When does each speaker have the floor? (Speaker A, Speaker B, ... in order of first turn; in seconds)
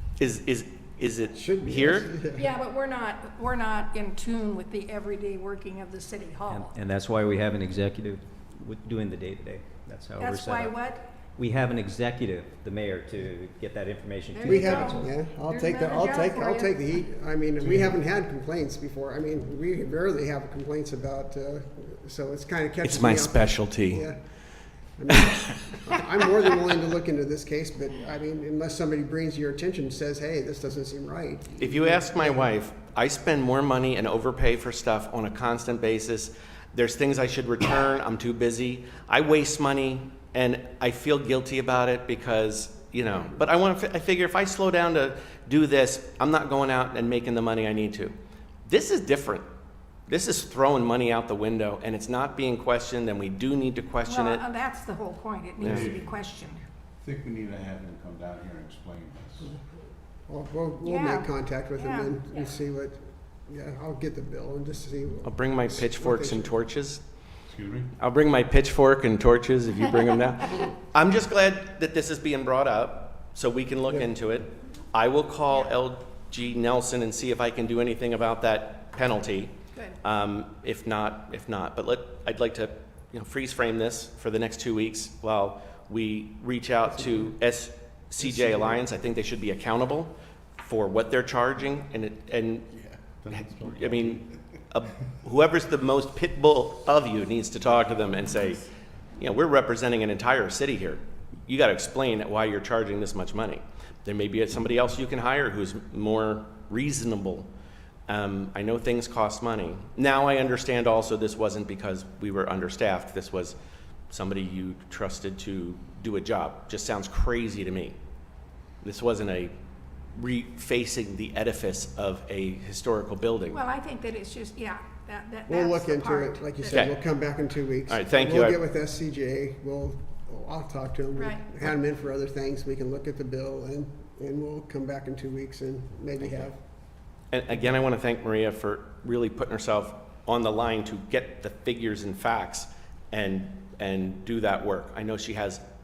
Speaker A: 0.2-2.1, 22.8-24.1, 31.6-49.5, 50.1-54.4, 55.6-55.9, 65.2-67.0, 68.0-92.7, 93.3-98.6, 99.2-107.5, 108.1-113.5, 114.1-118.0, 118.8-119.5, 120.1-123.6, 126.7-126.9, 127.9-128.6, 137.3-145.6
Speaker B: 1.3-2.5, 14.4-24.2, 24.9-32.5, 60.3-66.5, 125.5-136.6
Speaker C: 2.3-6.7, 10.2-11.1, 14.3-16.9, 54.0-56.6, 60.8-62.2, 123.5-126.9, 131.2-131.7
Speaker D: 6.5-10.8, 11.4-15.1
Speaker E: 17.7-17.9, 55.6-56.1, 57.0-59.5, 67.5-67.9, 92.9-94.2